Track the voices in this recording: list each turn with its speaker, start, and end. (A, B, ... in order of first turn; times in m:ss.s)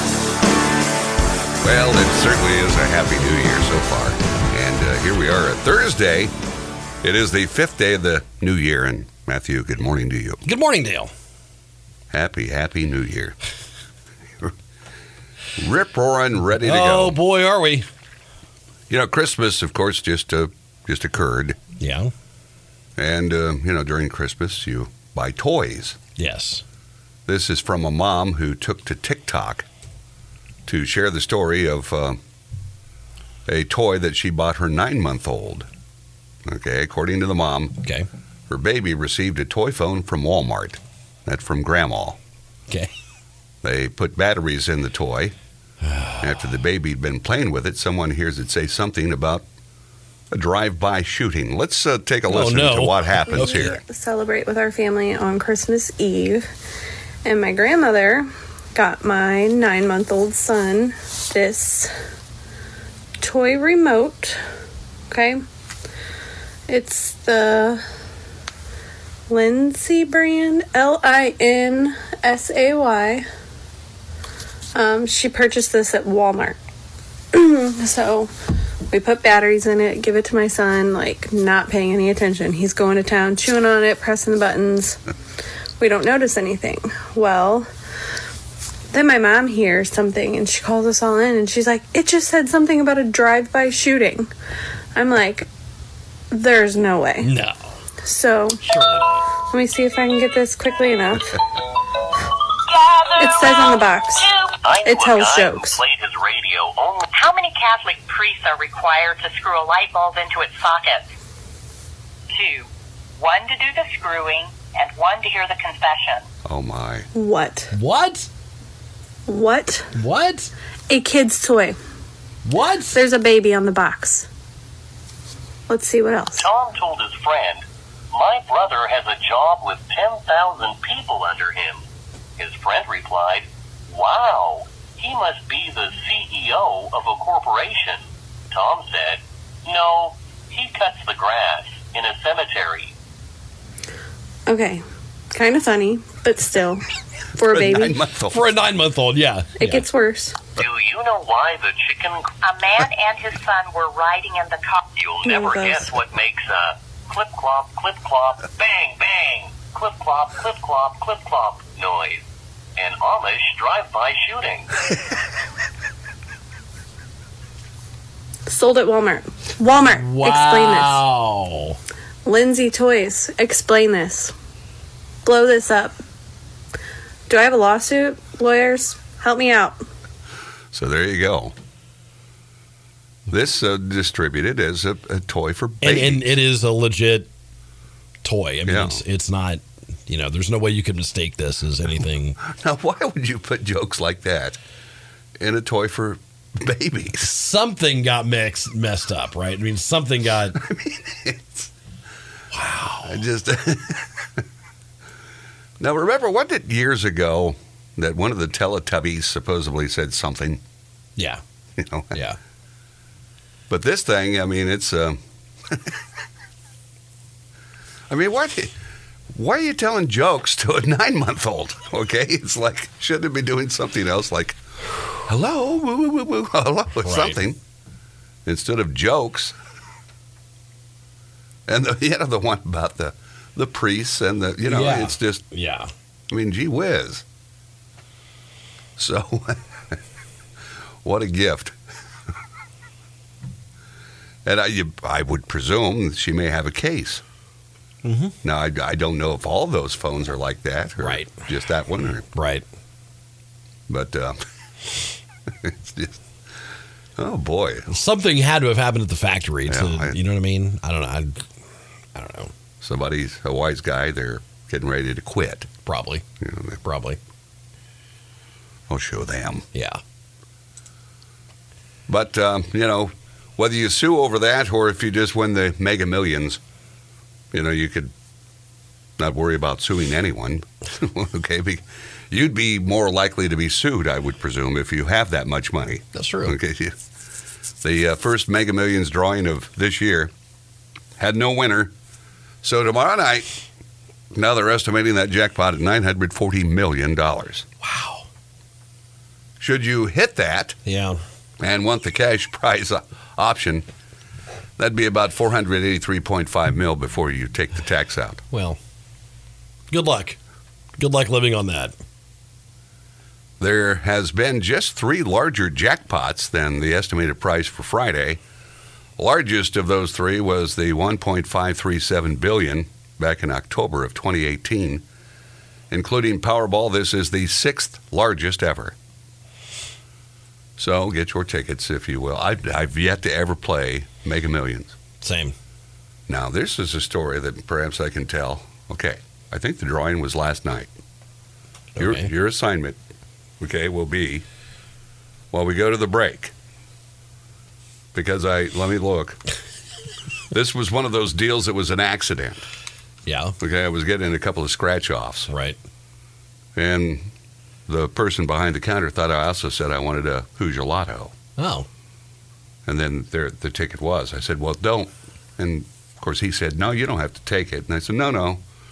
0:01.6-0:06.3 A
0:07.0-0:10.4 A
0:10.4-0:11.1 B
0:12.1-0:13.4 A
0:15.6-0:17.2 A
0:16.6-0:17.9 B
0:18.9-0:21.6 A
0:21.8-0:22.1 B
0:23.0-0:26.0 A
0:26.2-0:26.6 B
0:27.3-0:29.7 A
0:30.7-0:32.2 A
0:33.5-0:35.7 A
0:36.4-0:37.8 A
0:38.5-0:42.2 A
0:43.6-0:45.4 A
0:45.8-0:46.2 B
0:46.2-0:49.4 A
0:50.3-0:53.8 A
0:52.3-0:53.8 B
0:53.3-0:56.5 C
0:57.2-1:01.9 C
1:03.2-1:04.4 C
1:05.1-1:05.4 C
1:06.7-1:07.8 C
1:09.3-1:13.2 C
1:14.8-1:16.6 C
1:17.3-1:18.3 C
1:18.9-1:25.0 C
1:25.8-1:27.7 C
1:28.9-1:34.3 C
1:35.0-1:35.5 C
1:36.3-1:37.3 C
1:37.2-1:37.6 B
1:38.0-1:38.6 C
1:38.6-1:39.2 B
1:39.5-1:41.4 C
1:43.2-1:44.3 C
1:44.5-1:47.1 D
1:44.8-1:45.8 C
1:47.1-1:51.1 E
1:52.3-1:56.3 E
1:56.4-1:57.1 A
1:57.2-1:57.7 C
1:57.7-1:58.3 B
1:59.3-1:59.9 C
1:59.9-2:00.5 B
2:00.9-2:01.8 C
2:02.4-2:03.0 B
2:02.9-2:04.3 C
2:05.7-2:06.5 C
2:06.4-2:11.8 D
2:12.4-2:22.9 D
2:24.5-2:28.0 C
2:27.4-2:28.5 A
2:28.3-2:29.8 B
2:29.6-2:30.4 C
2:30.6-2:32.3 D
2:32.4-2:34.8 E
2:35.0-2:42.2 D
2:35.2-2:35.9 C
2:42.8-2:44.7 D
2:48.5-2:51.0 C
2:49.8-2:51.8 B
2:52.2-2:54.3 C
2:55.2-2:56.0 C
2:57.3-2:59.8 C
3:00.7-3:01.5 A
3:03.3-3:06.4 A
3:05.8-3:07.3 B
3:08.2-3:12.4 B
3:08.7-3:09.0 A
3:12.4-3:14.6 A
3:15.4-3:17.3 A
3:17.2-3:20.6 B
3:20.6-3:21.7 A
3:22.5-3:23.2 B
3:23.0-3:24.4 A
3:25.8-3:30.6 A
3:31.2-3:31.4 B
3:31.8-3:32.2 A
3:32.1-3:32.4 B
3:33.7-3:36.0 A
3:38.1-3:38.7 A
3:39.4-3:44.6 A
3:45.2-3:47.6 A
3:47.0-3:47.4 B
3:48.5-3:49.6 A
3:51.7-3:55.4 A
3:54.7-3:55.9 B
3:56.3-3:57.2 A
3:59.0-4:00.0 A
4:01.0-4:01.8 A
4:04.4-4:07.2 A
4:08.0-4:08.4 B
4:08.4-4:12.3 A
4:11.0-4:11.4 B
4:12.3-4:12.6 B
4:13.9-4:14.4 A
4:15.5-4:16.2 A
4:17.2-4:18.0 A
4:17.9-4:21.5 B
4:19.7-4:20.2 A
4:22.2-4:22.5 B
4:22.8-4:25.7 A
4:25.8-4:26.2 B
4:26.4-4:26.8 A
4:26.8-4:27.2 B
4:28.9-4:29.7 A
4:29.8-4:30.0 B
4:32.1-4:36.6 A
4:37.5-4:38.1 A
4:39.2-4:47.0 A
4:46.2-4:46.6 B
4:47.8-4:50.3 A
4:51.2-4:51.9 A
4:52.6-4:53.5 A
4:54.3-4:57.7 A
4:57.8-4:58.3 B
4:59.6-5:00.8 A
5:00.9-5:01.2 B
5:01.6-5:03.8 A
5:04.8-5:08.4 A
5:08.5-5:08.8 B
5:09.9-5:10.4 B
5:11.0-5:11.9 B
5:13.6-5:18.4 A
5:19.2-5:25.0 A
5:25.9-5:29.0 A
5:30.8-5:35.0 A
5:35.2-5:35.5 B
5:36.3-5:40.9 A
5:42.0-5:42.3 B
5:42.0-5:43.0 A
5:43.6-5:44.4 A
5:45.5-5:46.5 A
5:48.1-5:49.4 A
5:50.5-5:52.6 A
5:53.3-5:53.6 B
5:53.6-5:55.5 A
5:55.5-5:55.8 B
5:56.8-5:57.3 A
5:57.9-6:01.4 A
6:01.6-6:01.9 B
6:02.9-6:08.6 A